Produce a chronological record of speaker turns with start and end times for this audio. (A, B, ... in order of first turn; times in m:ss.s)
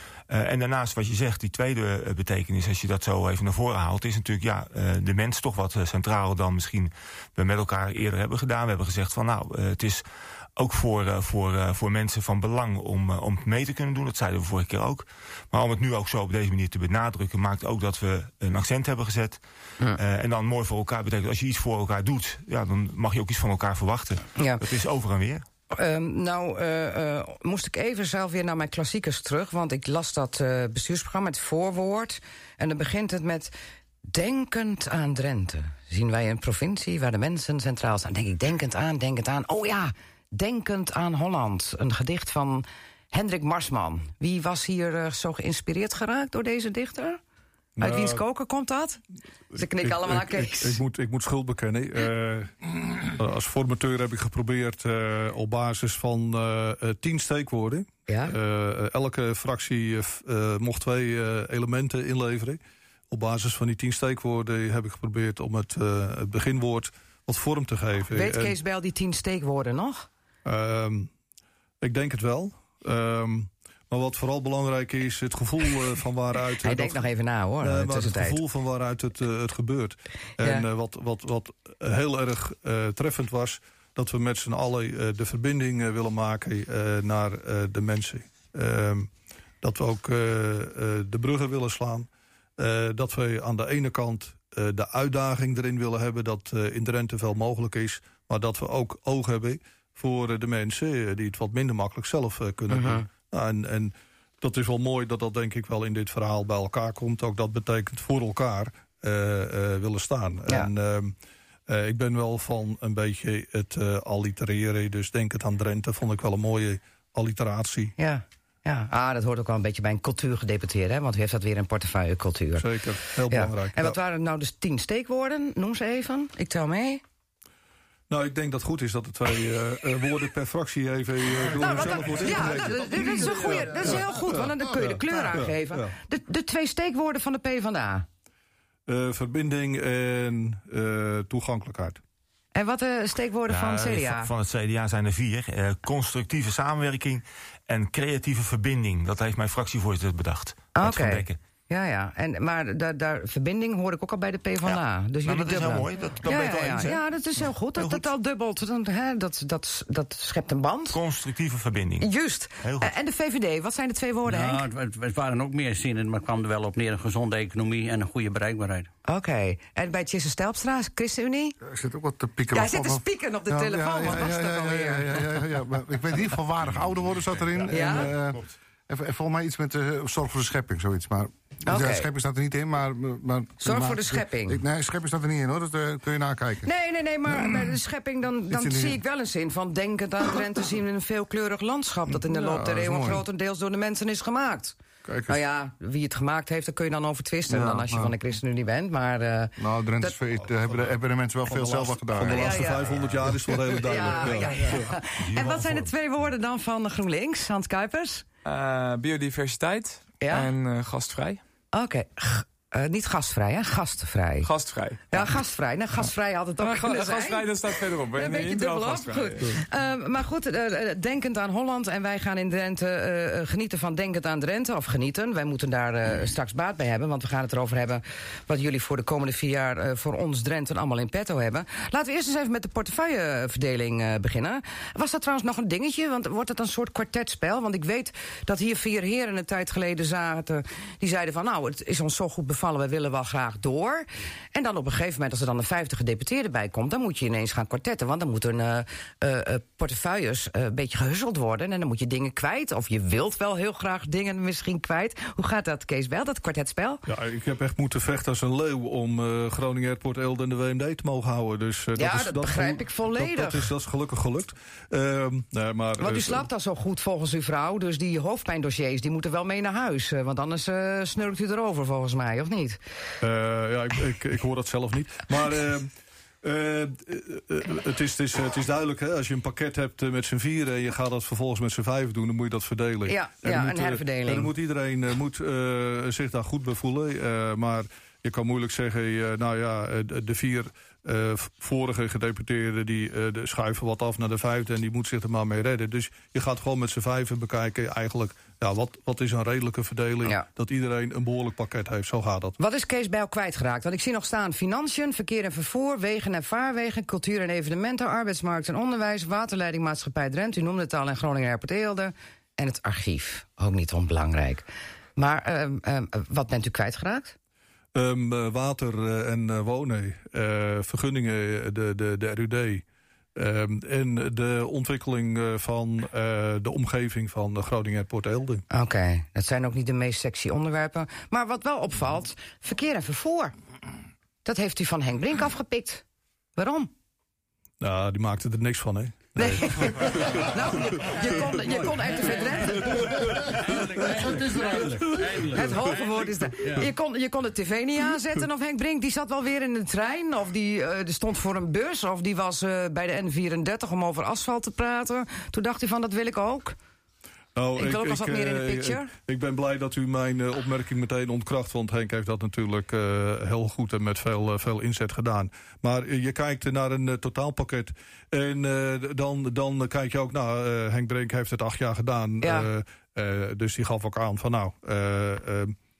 0:00.3-0:19.4 A
0:19.9-0:25.4 A
0:24.4-0:24.6 B
0:25.7-0:33.5 B
0:34.1-0:47.2 B
0:47.8-0:48.2 C
0:47.8-0:49.0 B
0:49.5-1:08.6 C
0:49.5-0:50.8 B
0:58.1-0:58.4 B
1:08.1-1:10.1 B
1:10.4-1:11.1 C
1:11.8-1:17.0 C
1:16.6-1:18.4 B
1:17.6-1:29.1 C
1:20.4-1:20.6 B
1:29.6-1:51.1 C
1:42.7-1:43.0 B
1:51.7-1:57.9 C
1:58.0-2:02.7 B
2:02.6-2:04.0 C
2:03.3-2:07.0 B
2:08.1-2:15.9 C
2:11.5-2:18.0 B
2:11.6-2:13.9 D
2:18.9-2:22.0 C
2:22.5-2:24.3 B
2:23.5-2:31.4 A
2:30.7-2:41.0 B
2:34.6-2:38.1 A
2:40.9-2:42.1 A
2:42.0-2:44.6 B
2:42.6-2:42.9 A
2:44.3-2:48.9 E
2:49.1-2:51.6 B
2:51.6-3:06.7 D
2:52.5-2:55.2 B
2:57.4-2:58.4 A
2:57.7-2:58.1 B
3:01.6-3:02.1 B
3:03.6-3:04.6 B
3:06.6-3:14.8 B
3:08.5-3:09.0 D
3:12.2-3:13.2 D
3:15.0-3:15.4 D
3:15.3-3:20.1 B
3:17.5-3:18.1 D
3:19.6-3:24.4 D
3:21.4-3:24.8 C
3:22.2-3:23.0 B
3:23.8-3:28.2 B
3:25.2-3:25.9 A
3:28.4-3:31.4 F
3:30.2-3:30.5 B
3:31.7-3:34.5 B
3:34.4-3:35.0 F
3:35.1-4:17.0 B
3:36.6-3:39.6 F
4:17.0-4:26.4 C
4:22.0-4:23.7 B
4:26.0-4:32.8 B
4:33.2-5:02.5 C
4:43.1-4:44.5 B
5:02.6-5:17.3 B
5:17.9-5:28.6 C
5:28.7-5:33.5 B
5:34.4-5:36.0 B
5:36.6-5:36.9 B
5:37.8-5:41.8 C
5:39.4-5:43.8 B
5:42.6-5:45.7 C
5:44.0-5:44.4 E
5:45.4-5:56.8 B
5:57.5-6:15.8 C
5:57.8-5:59.1 B
6:12.4-6:12.7 B